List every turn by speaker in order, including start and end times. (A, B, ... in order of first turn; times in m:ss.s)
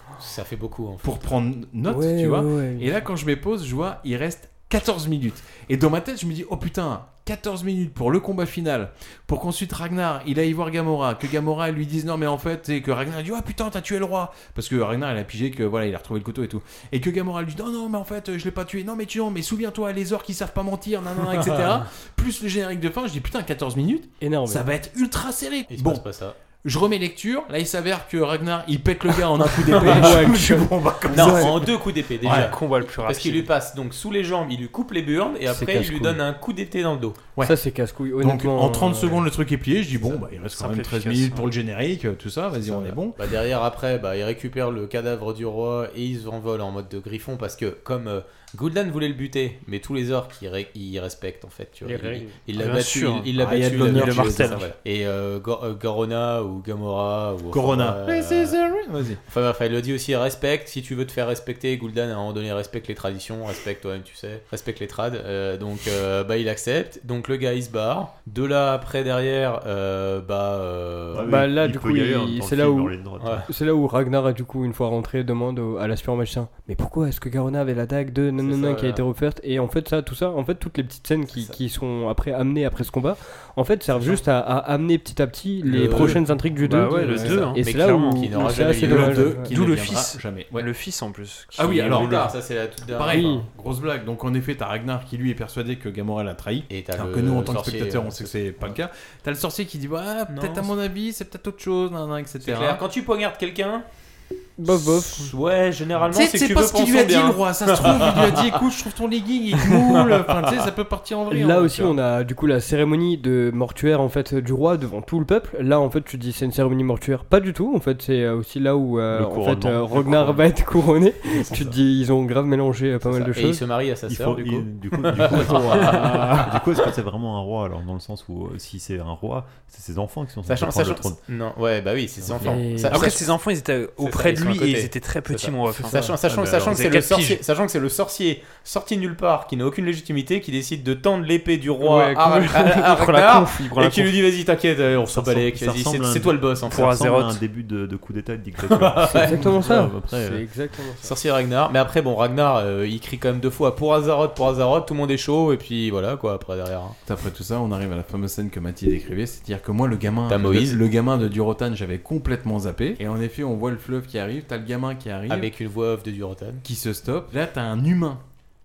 0:00.2-0:01.4 A
0:01.0-0:26.0 B
0:01.9-0:03.0 C
0:21.4-0:21.8 A
0:24.2-0:24.6 C
0:25.7-0:26.4 A
0:26.6-0:32.6 B
0:29.8-0:30.2 A
0:29.8-0:30.7 C
0:31.1-0:37.2 A
0:32.2-0:33.5 D
0:35.5-0:36.2 C
0:37.4-0:39.2 C
0:38.2-0:43.2 B
0:40.0-0:40.2 A
0:40.5-0:41.5 D
0:42.6-0:58.6 A
0:51.8-0:52.4 C
0:52.5-0:54.7 D
0:53.4-0:54.7 B
0:57.5-0:59.2 B
0:59.3-1:11.4 A
1:11.1-1:13.5 E
1:11.2-1:29.5 C
1:13.2-1:13.5 A
1:18.4-1:19.0 A
1:21.3-1:21.6 A
1:25.6-1:29.4 A
1:26.6-1:28.3 D
1:28.8-1:30.7 B
1:29.5-1:32.2 D
1:31.6-1:32.4 B
1:31.6-1:33.4 A
1:32.9-1:42.8 B
1:33.1-1:33.5 C
1:36.7-1:38.8 A
1:40.3-1:40.7 A
1:42.4-1:43.9 A
1:44.6-1:45.3 C
1:44.7-1:48.6 A
1:46.1-1:52.0 B
1:49.9-1:50.5 A
1:51.3-2:03.6 C
1:59.1-2:00.4 E
2:03.0-2:06.8 A
2:04.1-2:11.2 E
2:10.5-2:13.4 A
2:12.4-2:13.0 C
2:12.9-2:17.4 D
2:14.0-2:27.0 A
2:16.1-2:16.8 E
2:21.8-2:24.2 D
2:25.1-2:30.4 E
2:26.7-2:27.4 D
2:28.7-2:29.6 A
2:29.1-2:31.1 C
2:31.0-2:37.0 A
2:37.1-2:45.5 B
2:40.3-2:40.8 A
2:45.3-2:46.6 A
2:46.6-2:48.2 B